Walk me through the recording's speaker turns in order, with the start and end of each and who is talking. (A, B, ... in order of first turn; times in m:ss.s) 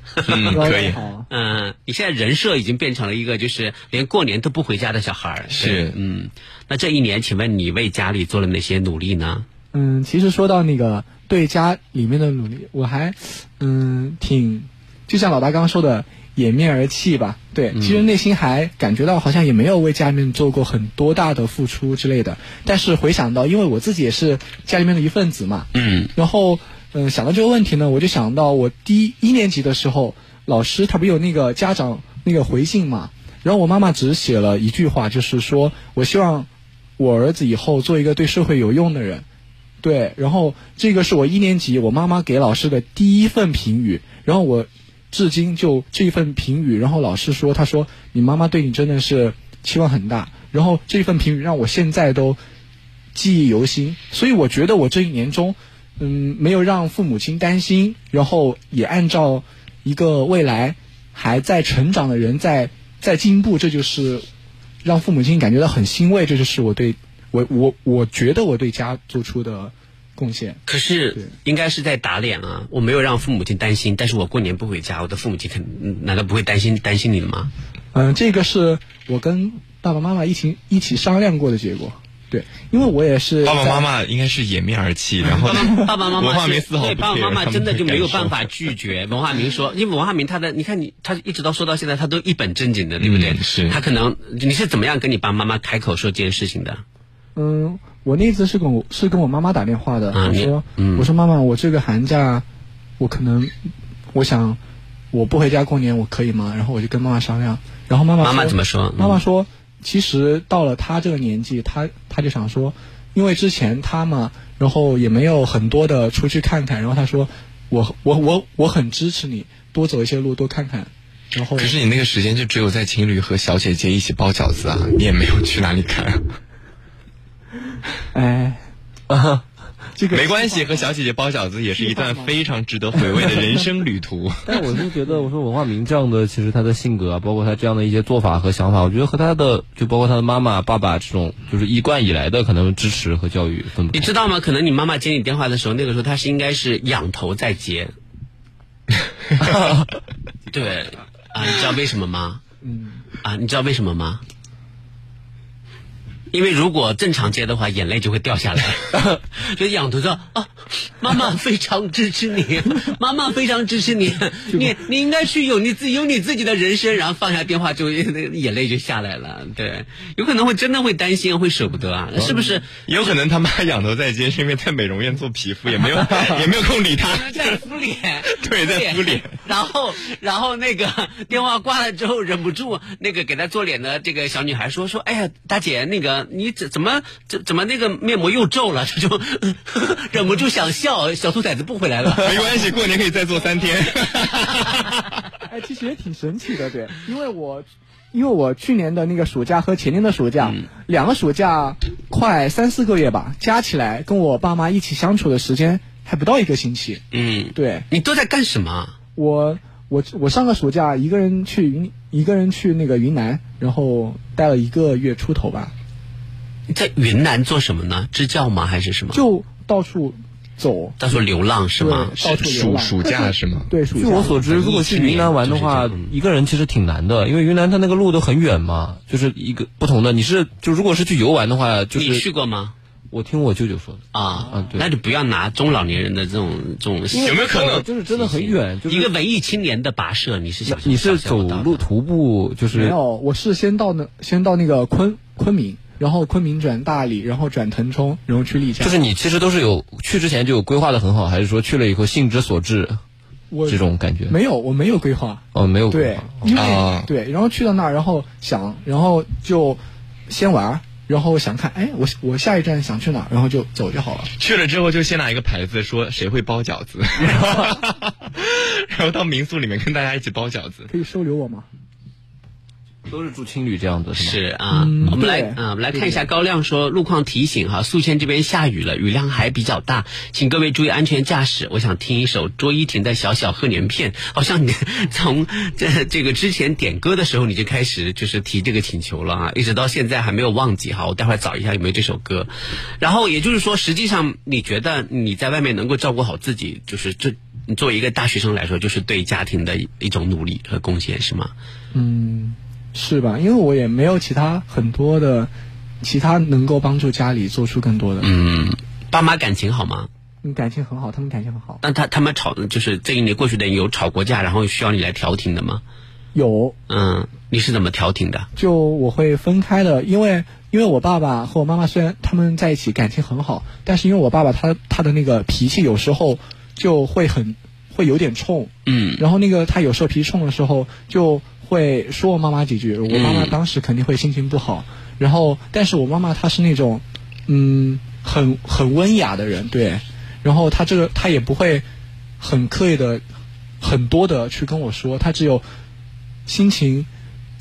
0:00.2-0:00.7 A
0:00.3-0:01.0 B
0:00.5-0:01.3 C
0:01.3-0:09.4 A
0:05.5-0:06.0 B
0:09.7-0:39.2 C
0:17.7-0:18.0 A
0:25.8-0:26.1 A
0:39.8-0:52.4 C
0:53.1-1:04.3 C
1:04.8-1:10.6 C
1:10.7-1:17.5 A
1:17.9-1:23.9 C
1:23.4-1:28.5 B
1:25.4-1:36.8 A
1:33.0-1:33.8 B
1:37.4-1:42.4 C
1:40.1-1:41.1 A
1:43.0-1:43.6 C
1:44.1-1:44.6 C
1:45.1-2:01.8 C
1:48.2-1:49.2 A
2:01.6-2:06.2 B
2:08.1-2:08.6 C
2:09.1-2:09.4 D
2:10.0-2:10.9 C
2:10.1-2:14.4 B
2:11.7-2:12.4 C
2:13.1-2:13.7 C
2:14.4-2:24.1 D
2:23.9-2:27.9 A
2:29.4-2:29.8 D
2:30.5-2:32.4 A
2:32.6-2:33.0 C
2:33.2-2:34.2 A
2:36.3-2:52.8 A
2:52.2-2:57.6 B
2:56.2-3:12.7 A
2:58.3-2:59.3 B
3:12.2-3:15.1 B
3:15.5-3:27.0 C
3:20.4-3:20.7 A
3:27.1-3:28.9 A
3:27.5-3:27.9 C
3:29.1-3:35.7 C
3:36.7-3:39.2 A
3:39.1-3:41.0 C
3:41.0-3:42.4 A
3:41.8-3:44.4 C
3:42.3-3:43.7 B
3:44.0-3:52.2 D
3:44.4-3:46.1 A
3:52.0-3:52.8 A
3:53.1-3:54.9 D
3:54.1-3:57.5 A
3:57.1-3:59.1 D
3:57.2-3:57.9 B
3:58.1-4:01.8 A
4:00.6-4:03.0 D
4:02.7-4:09.0 C
4:08.8-4:13.0 D
4:13.5-4:24.3 C
4:13.7-4:14.4 D
4:15.5-4:16.6 D
4:16.5-4:17.1 B
4:24.4-4:30.9 B
4:30.9-4:31.7 C
4:33.1-4:34.4 D
4:34.2-5:01.5 A
4:34.7-4:36.3 C
5:01.9-5:08.3 C
5:08.2-5:10.1 A
5:10.4-5:11.8 C
5:11.8-5:15.8 A
5:16.3-5:16.8 C
5:16.9-5:18.5 A
5:18.6-5:41.8 C
5:28.9-5:29.2 A
5:33.1-5:33.6 A
5:42.4-5:43.2 C
5:43.8-5:45.6 C
5:46.4-5:47.1 C